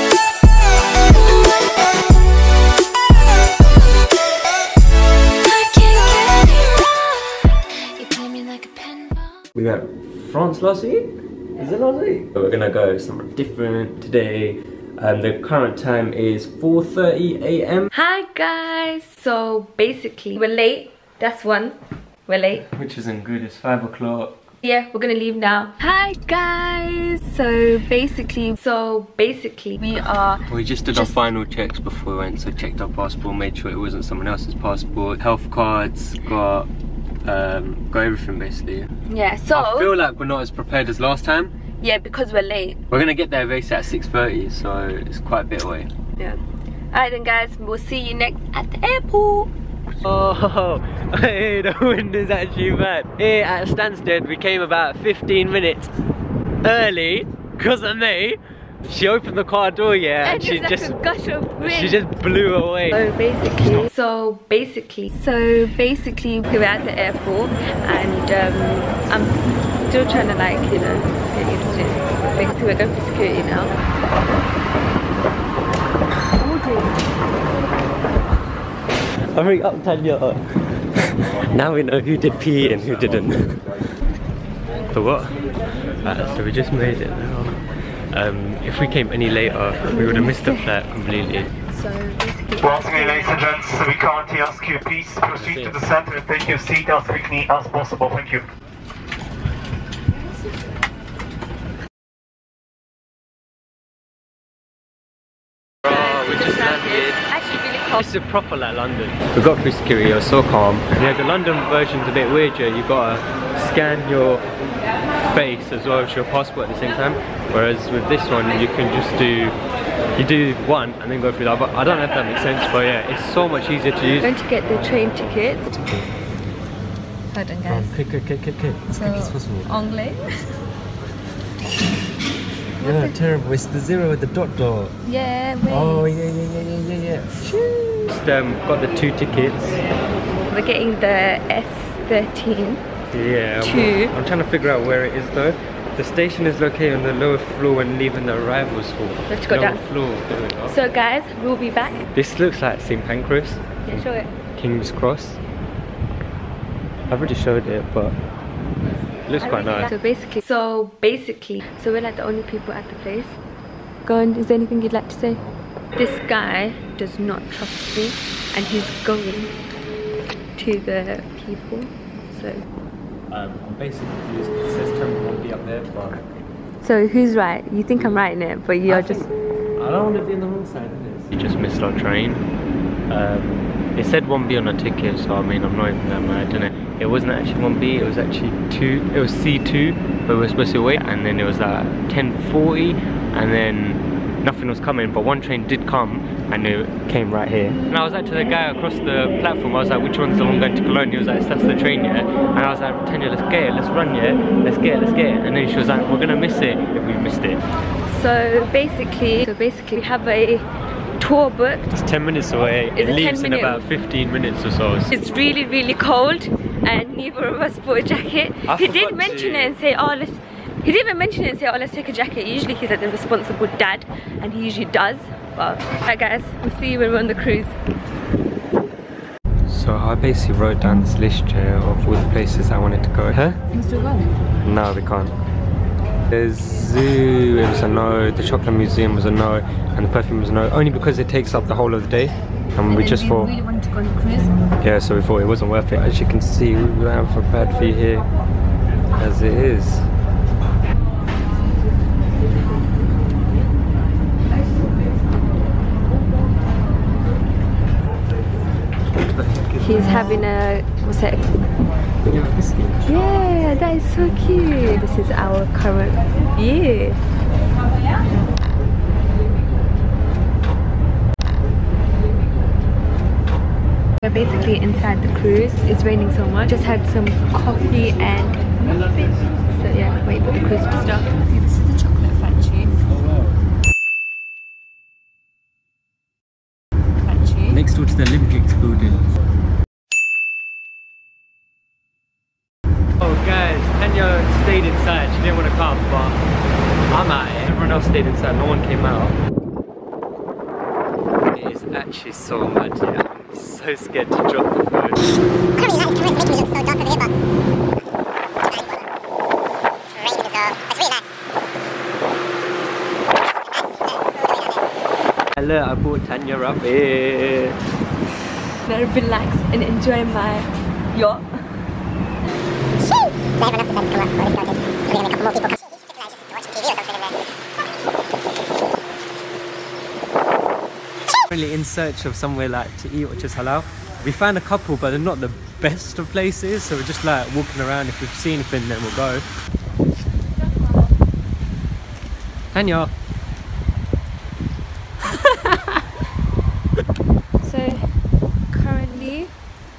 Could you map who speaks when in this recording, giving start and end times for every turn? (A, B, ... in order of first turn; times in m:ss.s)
0:05.4-0:07.2 A
0:07.7-0:09.3 A
0:09.5-0:17.9 B
0:17.9-0:22.6 A
0:22.5-0:24.4 B
0:24.6-0:31.1 A
0:30.4-0:36.7 B
0:37.2-0:38.9 B
0:39.1-0:39.9 A
0:39.5-0:41.5 B
0:41.8-0:42.8 A
0:42.9-0:45.9 B
0:46.9-0:49.5 A
0:50.0-0:55.9 B
0:56.6-1:01.0 B
1:00.2-1:02.0 A
1:01.6-1:03.0 B
1:02.9-1:13.8 A
1:19.3-1:20.5 B
1:21.2-1:23.6 B
1:24.9-1:25.5 B
1:26.0-1:31.5 B
1:29.9-1:30.6 A
1:31.7-1:33.6 A
1:32.6-1:38.5 C
1:35.3-1:35.8 B
1:45.8-1:47.2 B
1:45.8-1:48.0 A
1:47.9-1:54.4 B
1:55.2-1:59.6 B
2:00.2-2:04.3 B
2:04.2-2:05.7 A
2:05.6-2:06.2 B
2:07.3-2:08.0 A
2:07.7-2:09.7 B
2:08.9-2:10.5 A
2:12.8-2:15.0 B
2:12.8-2:13.1 A
2:15.0-2:16.1 A
2:15.7-2:19.8 B
2:17.5-2:18.0 A
2:20.5-2:22.8 A
2:23.1-2:30.8 B
2:23.6-2:24.1 A
2:29.3-2:29.8 A
2:30.7-2:32.0 A
2:32.1-2:35.4 B
2:33.8-2:34.3 A
2:37.1-2:38.2 B
2:39.3-2:39.9 B
2:39.4-2:43.4 A
2:44.0-2:45.4 A
2:46.0-2:49.5 A
2:50.6-2:52.6 A
2:53.3-2:56.2 B
2:56.8-2:59.3 A
2:58.8-3:02.4 B
3:03.1-3:27.6 B
3:28.0-3:30.7 A
3:31.2-3:31.9 A
3:31.9-3:35.1 B
3:33.0-3:33.8 A
3:35.1-3:47.8 A
3:38.7-3:39.8 B
3:49.7-3:53.6 B
3:53.7-3:54.3 A
3:54.6-3:55.3 B
3:56.3-4:03.6 B
4:02.9-4:04.6 A
4:04.8-4:08.2 B
4:09.2-4:10.1 B
4:19.4-4:20.2 B
4:19.8-4:21.6 A
4:22.2-4:23.0 B
4:23.0-4:27.2 A
4:34.2-4:43.0 A
4:43.1-4:43.5 B
4:47.2-4:47.8 A
4:47.7-4:49.2 B
4:53.2-4:56.4 B
4:57.1-4:59.4 B
5:01.5-5:05.3 B
5:05.8-5:07.3 D
5:08.6-5:09.1 D
5:10.1-5:11.2 D
5:13.7-5:14.8 D
5:15.6-5:17.8 B
5:18.8-5:21.8 A
5:23.0-5:27.4 D
5:31.4-5:39.4 B
5:42.7-5:43.1 B
5:47.6-5:49.5 A